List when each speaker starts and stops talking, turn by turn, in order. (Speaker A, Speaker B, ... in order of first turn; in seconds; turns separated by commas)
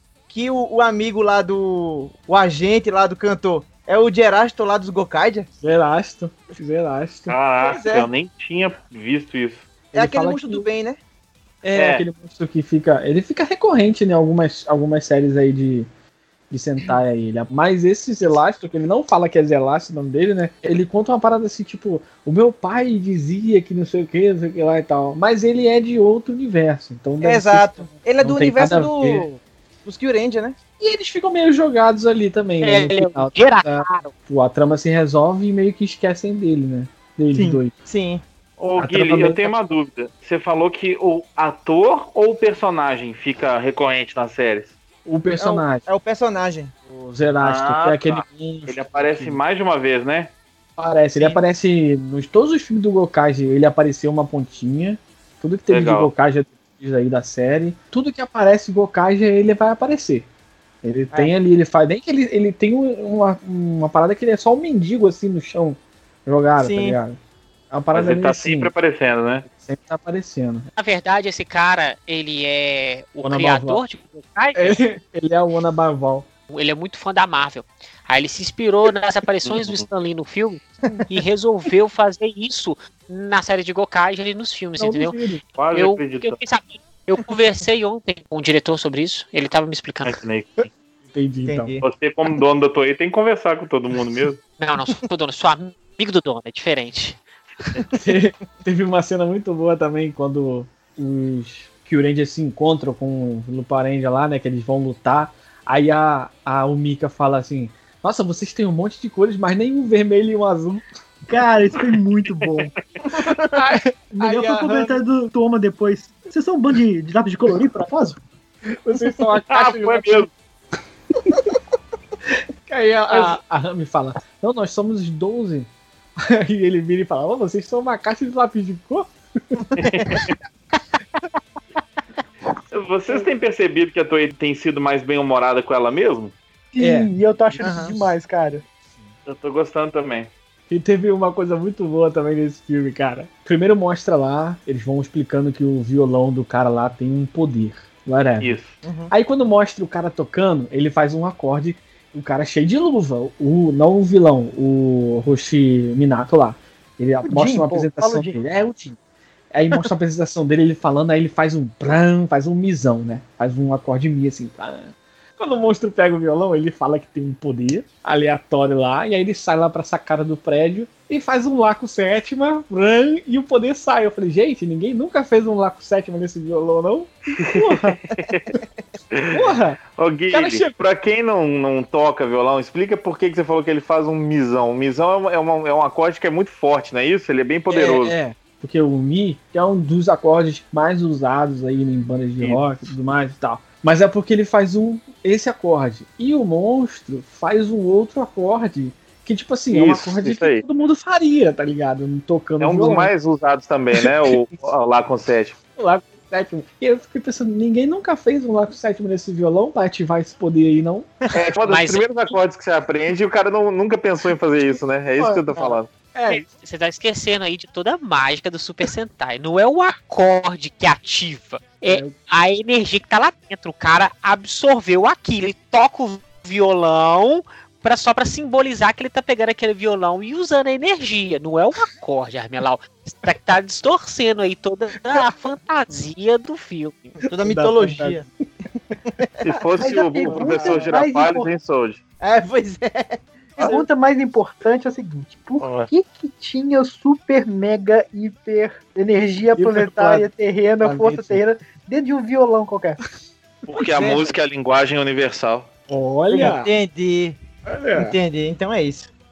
Speaker A: 0.3-5.5, Speaker B: 5.6-7.4, Speaker C: 7.3-9.7, Speaker A: 7.6-8.1, Speaker B: 9.9-10.7, Speaker A: 9.9-11.0, Speaker B: 11.6-15.9, Speaker C: 11.7-12.0, Speaker B: 16.5-29.3, Speaker A: 27.2-30.6, Speaker B: 30.8-37.7, Speaker D: 32.6-34.1, Speaker E: 37.3-37.6, Speaker A: 37.9-38.2, Speaker C: 38.6-44.7, Speaker B: 38.8-39.6, Speaker B: 45.0-45.8, Speaker A: 45.4-46.7, Speaker B: 46.9-49.4, Speaker C: 47.4-50.3, Speaker B: 50.8-60.3, Speaker A: 51.1-51.4, Speaker C: 55.7-56.1, Speaker B: 60.8-67.2, Speaker A: 66.6-67.0, Speaker B: 67.7-68.7, Speaker C: 67.9-69.5, Speaker B: 69.6-70.7, Speaker D: 70.7-74.8, Speaker B: 73.2-73.8, Speaker B: 74.5-76.3, Speaker D: 76.5-85.2, Speaker C: 79.5-79.8, Speaker B: 84.8-85.4, Speaker C: 85.6-86.4, Speaker D: 85.7-90.2, Speaker C: 90.0-90.7, Speaker B: 90.6-91.7, Speaker A: 91.5-91.8, Speaker C: 91.8-94.4, Speaker D: 94.6-97.2, Speaker B: 97.9-110.8, Speaker E: 111.3-112.7, Speaker A: 113.1-113.6, Speaker B: 113.3-115.0, Speaker E: 114.1-118.2, Speaker B: 118.8-120.3, Speaker C: 119.5-120.3, Speaker B: 122.7-130.2, Speaker C: 129.8-130.3, Speaker C: 132.7-136.3, Speaker E: 136.7-138.6, Speaker B: 136.8-137.1, Speaker A: 137.6-138.0, Speaker C: 139.2-140.3, Speaker B: 140.7-148.6, Speaker C: 148.4-148.7, Speaker A: 148.8-149.1, Speaker B: 149.1-159.0, Speaker E: 157.2-158.4, Speaker B: 159.5-178.0, Speaker C: 178.1-178.5, Speaker C: 179.1-188.2, Speaker B: 179.3-179.8, Speaker B: 180.3-180.8, Speaker B: 187.7-203.1, Speaker C: 192.4-192.7, Speaker C: 199.7-200.6, Speaker C: 202.6-205.6, Speaker B: 204.0-204.5, Speaker B: 205.8-211.1, Speaker C: 211.3-215.9, Speaker D: 211.6-212.3, Speaker B: 215.2-216.4, Speaker D: 216.3-237.1, Speaker B: 221.8-222.2, Speaker A: 237.2-238.2, Speaker B: 237.4-238.2, Speaker A: 239.2-239.6, Speaker C: 239.4-242.0, Speaker E: 239.8-241.5, Speaker B: 240.3-240.9, Speaker A: 240.4-240.8, Speaker A: 242.2-243.8, Speaker E: 243.6-253.0, Speaker C: 245.6-245.9, Speaker B: 249.6-250.3, Speaker B: 250.8-251.4, Speaker C: 253.7-255.7, Speaker A: 253.9-254.3, Speaker B: 255.9-256.7, Speaker A: 256.3-257.4, Speaker B: 257.7-258.1, Speaker A: 257.9-259.1